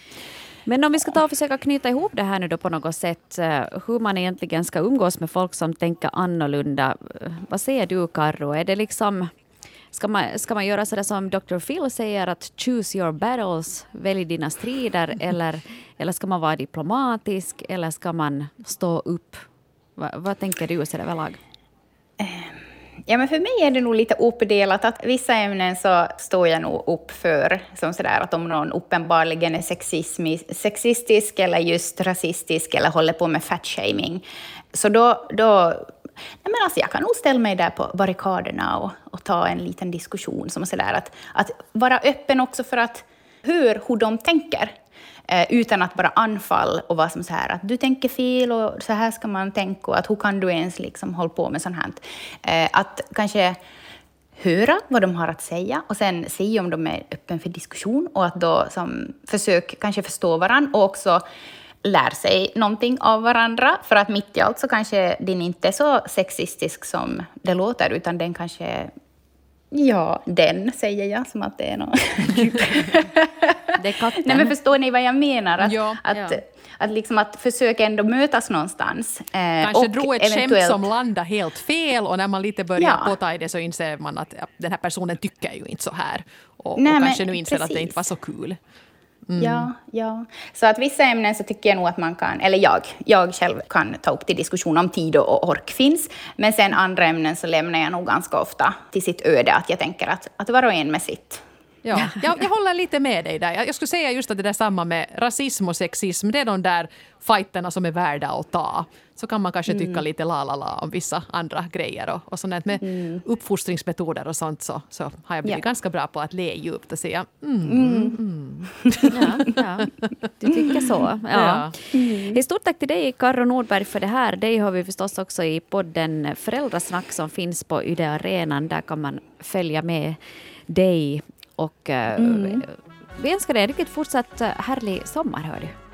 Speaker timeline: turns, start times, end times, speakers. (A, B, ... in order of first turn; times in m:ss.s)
0:00.6-0:09.3 A
0:09.9-0:21.4 A
0:22.2-0:35.9 B
0:36.4-0:44.7 B
0:45.3-0:53.6 B
0:54.4-1:01.2 B
1:01.8-1:08.9 B
1:09.7-1:20.9 B
1:13.8-1:14.5 A
1:15.6-1:16.0 C
1:16.1-1:16.4 A
1:19.6-1:28.6 C
1:22.8-1:23.1 B
1:26.8-1:28.0 B
1:29.3-1:29.7 C
1:29.4-1:41.4 B
1:41.8-1:59.4 C
1:49.7-1:50.0 B
1:52.8-1:53.2 B
1:57.6-1:58.2 B
1:58.8-1:59.1 B
1:59.1-1:59.9 A
2:00.4-2:10.2 A
2:01.3-2:01.7 C
2:01.9-2:02.4 B
2:10.7-2:15.7 A
2:12.2-2:12.6 B